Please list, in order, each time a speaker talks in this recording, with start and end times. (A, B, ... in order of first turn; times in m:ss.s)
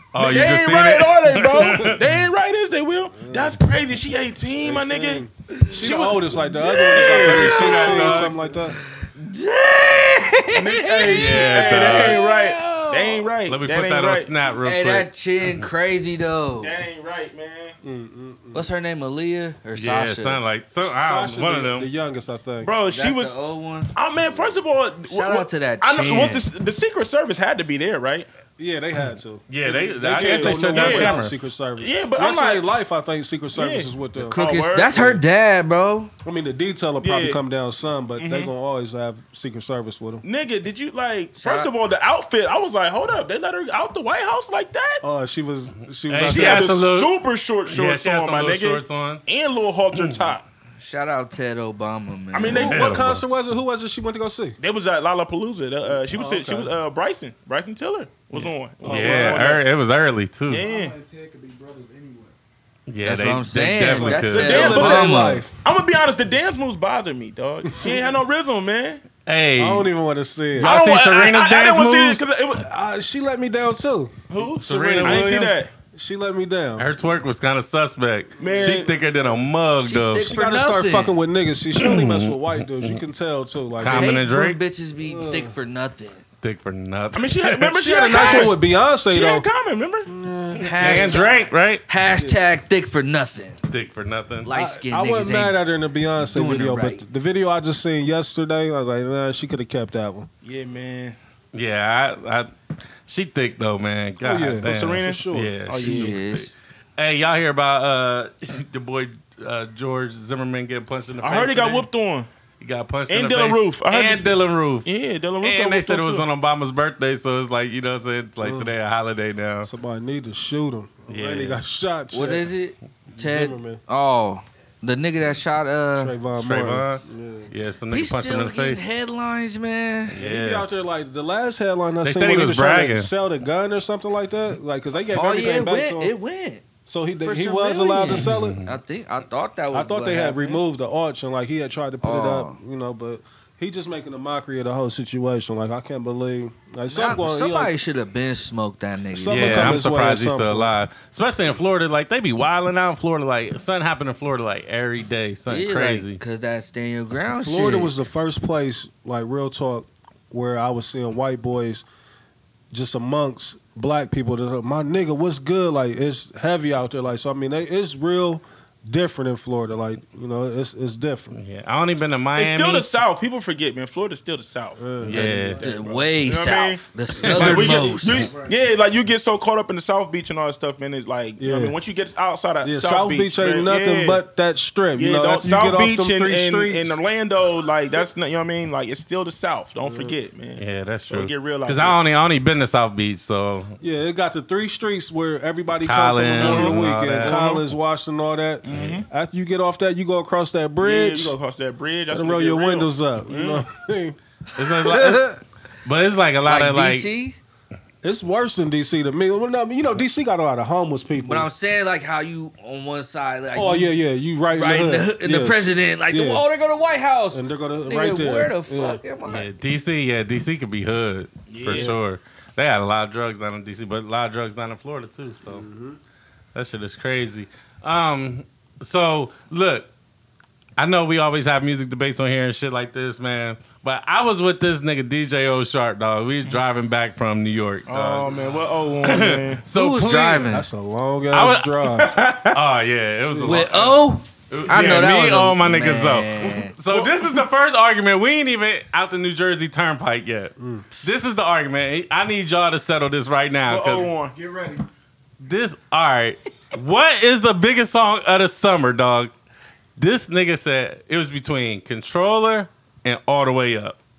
0:00.1-0:02.0 A
0:00.2-0:08.3 B
0:03.2-0:03.6 C
0:04.6-0:08.8 C
0:06.9-0:07.9 D
0:07.1-0:08.3 A
0:07.5-0:08.7 E
0:09.2-0:13.3 D
0:10.5-0:14.3 B
0:11.1-0:12.2 A
0:13.5-0:15.7 A
0:14.6-0:16.7 D
0:16.6-0:17.8 B
0:17.8-0:18.7 C
0:18.5-0:20.4 D
0:19.8-0:21.9 A
0:20.8-0:22.7 C
0:22.6-0:23.4 B
0:22.9-0:26.4 D
0:23.9-0:28.3 B
0:28.6-0:34.4 C
0:29.5-0:31.4 A
0:30.1-0:31.2 B
0:31.8-0:32.7 B
0:33.6-0:35.2 B
0:34.2-0:36.1 D
0:36.2-0:40.2 C
0:37.0-0:37.4 B
0:38.2-0:38.5 B
0:40.2-0:45.0 B
0:41.4-0:41.7 D
0:45.0-0:46.8 C
0:46.1-0:47.1 A
0:46.2-0:50.4 B
0:47.7-0:49.2 A
0:49.9-0:50.3 A
0:50.8-0:52.9 D
0:52.3-0:53.1 B
0:52.5-0:53.2 A
0:52.5-0:54.6 C
0:54.6-0:59.6 B
0:56.1-0:56.7 C
0:58.4-0:59.6 C
0:58.8-1:00.6 A
1:00.5-1:01.0 B
1:00.6-1:02.4 E
1:02.9-1:04.9 A
1:03.0-1:05.4 D
1:03.9-1:05.5 C
1:04.4-1:09.0 B
1:07.7-1:08.1 C
1:09.2-1:09.9 A
1:09.6-1:10.7 C
1:10.6-1:12.2 A
1:10.6-1:12.7 B
1:12.6-1:16.9 C
1:14.3-1:15.4 A
1:14.3-1:15.7 B
1:16.8-1:20.3 A
1:18.4-1:18.9 B
1:18.4-1:19.5 C
1:19.8-1:21.2 D
1:20.2-1:24.2 C
1:21.8-1:23.0 A
1:23.8-1:24.6 A
1:23.8-1:26.2 D
1:25.0-1:25.5 C
1:26.4-1:28.5 A
1:27.1-1:30.1 B
1:27.8-1:29.4 C
1:30.1-1:31.2 C
1:30.6-1:33.6 D
1:30.6-1:31.8 A
1:33.7-1:34.5 A
1:34.4-1:35.6 D
1:34.5-1:40.3 C
1:36.2-1:37.0 D
1:40.4-1:41.2 B
1:41.5-1:42.5 A
1:43.1-1:51.9 A
1:44.2-1:45.5 C
1:44.6-1:46.2 B
1:45.8-1:46.5 D
1:51.2-1:52.3 B
1:52.6-1:54.9 A
1:53.1-1:54.3 B
1:54.8-1:56.2 B
1:55.4-1:59.7 A
1:58.4-1:58.7 C
1:59.6-2:02.5 C
2:01.1-2:01.6 A
2:02.1-2:06.1 D
2:03.2-2:03.8 C
2:06.0-2:07.5 C
2:06.4-2:08.8 A
2:07.9-2:10.2 D
2:10.1-2:10.7 A
2:10.2-2:16.1 C
2:12.0-2:13.1 A
2:15.1-2:16.7 D
2:16.8-2:18.6 C
2:17.2-2:20.6 D
2:18.1-2:18.7 A
2:19.7-2:27.7 C
2:22.0-2:22.6 D
2:26.9-2:29.8 D
2:29.1-2:30.7 C
2:29.3-2:36.2 A
2:35.5-2:37.9 D
2:37.4-2:41.8 C
2:42.7-2:51.4 C
2:51.3-2:52.9 A
2:52.4-3:04.2 B
2:54.8-2:55.2 C
2:55.0-2:55.7 A
2:55.1-2:58.3 D
2:57.2-2:58.2 A
2:58.2-2:58.6 E
3:01.4-3:01.8 C
3:02.6-3:07.0 C
3:05.0-3:12.0 B
3:09.8-3:10.1 C
3:10.6-3:13.8 A
3:13.8-3:21.3 C
3:15.8-3:17.6 A
3:16.4-3:17.6 B
3:18.6-3:19.1 B
3:18.7-3:19.0 A
3:20.8-3:23.6 B
3:22.1-3:24.2 C
3:24.6-3:25.2 A
3:24.7-3:25.4 D
3:25.8-3:27.1 A
3:26.4-3:27.4 D
3:28.0-3:31.5 C
3:31.2-3:33.9 D
3:33.6-3:36.4 C
3:34.5-3:39.5 D
3:37.3-3:39.0 C
3:39.2-3:45.6 A
3:41.5-3:42.0 B
3:41.7-3:42.0 C
3:45.5-3:46.0 C
3:46.5-3:49.9 A
3:50.8-3:58.4 A
3:57.9-3:59.6 B
3:59.0-4:00.5 A
3:59.7-4:00.7 D
4:00.5-4:02.2 C
4:01.3-4:04.0 A
4:02.0-4:02.6 B
4:03.2-4:03.7 C
4:03.4-4:06.7 D
4:04.5-4:14.1 A
4:06.9-4:07.4 B
4:10.6-4:10.9 C
4:13.6-4:14.4 B
4:14.0-4:14.9 E
4:15.4-4:19.3 A
4:20.0-4:24.0 A